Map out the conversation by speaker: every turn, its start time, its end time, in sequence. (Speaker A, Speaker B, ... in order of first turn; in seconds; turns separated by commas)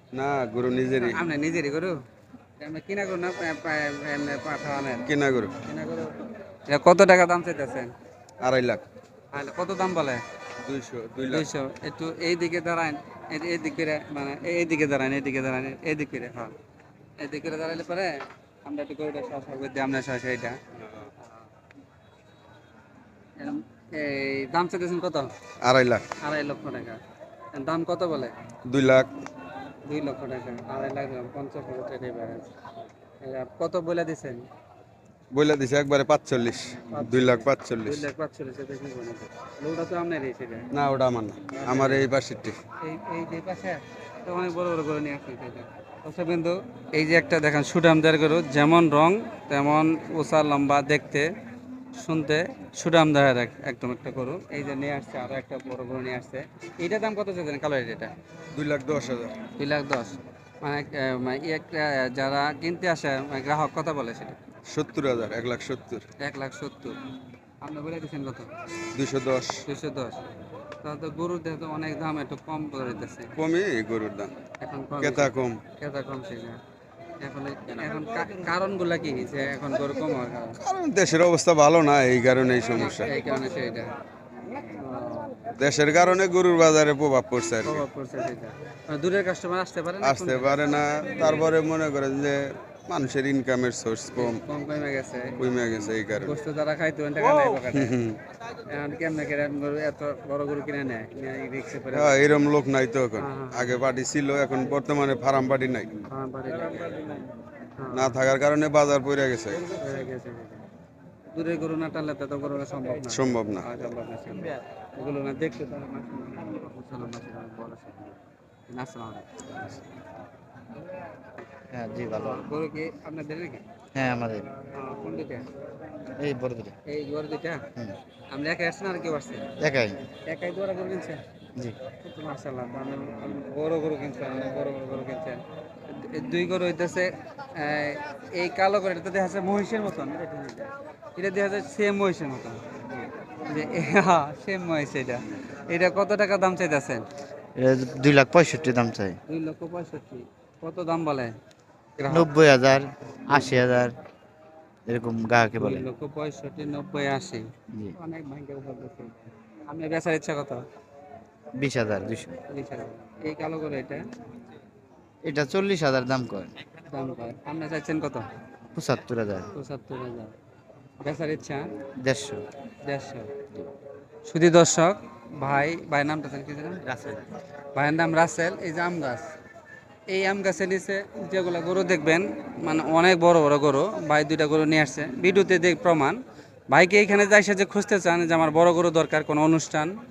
Speaker A: 0.1-1.2, Speaker B: 1.0-2.0, Speaker B: 2.6-5.1, Speaker A: 5.1-5.5, Speaker B: 5.7-6.1, Speaker B: 6.7-7.9, Speaker A: 8.4-8.8, Speaker B: 9.3-10.2, Speaker A: 10.7-11.5, Speaker B: 11.2-16.5, Speaker B: 17.2-18.1, Speaker B: 18.6-20.6, Speaker B: 23.4-25.3, Speaker A: 25.6-26.1, Speaker B: 26.2-27.0, Speaker B: 27.5-28.3, Speaker A: 28.7-29.1, Speaker B: 29.9-32.5, Speaker B: 33.2-34.5, Speaker A: 35.3-38.1, Speaker B: 36.9-40.7, Speaker A: 40.7-42.6, Speaker B: 41.6-42.1, Speaker B: 42.8-51.3, Speaker B: 52.0-58.1, Speaker A: 58.5-59.3, Speaker B: 59.6-64.4, Speaker A: 64.7-66.0, Speaker B: 66.2-67.0, Speaker B: 67.6-68.5, Speaker A: 69.0-69.6, Speaker B: 69.7-70.3, Speaker B: 70.8-73.3, Speaker A: 73.4-74.3, Speaker B: 74.6-76.6, Speaker A: 75.0-75.6, Speaker B: 77.2-80.6, Speaker A: 80.6-83.1, Speaker B: 83.0-83.9, Speaker B: 84.8-85.4, Speaker A: 85.6-87.8, Speaker B: 87.7-91.5, Speaker A: 90.0-94.4, Speaker B: 94.2-95.5, Speaker A: 95.4-96.3, Speaker B: 96.2-97.9, Speaker A: 97.7-98.2, Speaker B: 98.7-102.3, Speaker A: 101.9-105.9, Speaker B: 103.2-103.8, Speaker B: 106.1-107.2, Speaker B: 107.8-108.2, Speaker A: 107.9-109.6, Speaker B: 109.7-110.7, Speaker B: 111.3-119.7, Speaker A: 113.1-113.7, Speaker C: 121.7-122.5, Speaker B: 122.1-123.6, Speaker C: 123.9-124.5, Speaker B: 124.7-125.5, Speaker C: 126.2-126.8, Speaker B: 126.9-127.6, Speaker B: 128.3-129.5, Speaker C: 129.6-130.0, Speaker B: 130.1-131.2, Speaker B: 132.0-142.6, Speaker B: 143.5-147.1, Speaker C: 147.6-149.2, Speaker B: 149.3-151.3, Speaker B: 152.0-152.3, Speaker C: 152.1-153.9, Speaker B: 153.3-153.8, Speaker C: 154.9-155.9, Speaker B: 155.6-160.7, Speaker C: 161.6-162.4, Speaker B: 162.5-164.1, Speaker C: 165.2-166.5, Speaker B: 166.9-168.3, Speaker C: 168.8-169.5, Speaker B: 169.6-170.4, Speaker B: 171.0-171.7, Speaker C: 172.0-172.4, Speaker B: 172.8-173.3, Speaker B: 174.3-176.8, Speaker C: 176.9-177.2, Speaker B: 177.8-179.3, Speaker B: 180.1-186.2, Speaker B: 186.7-189.9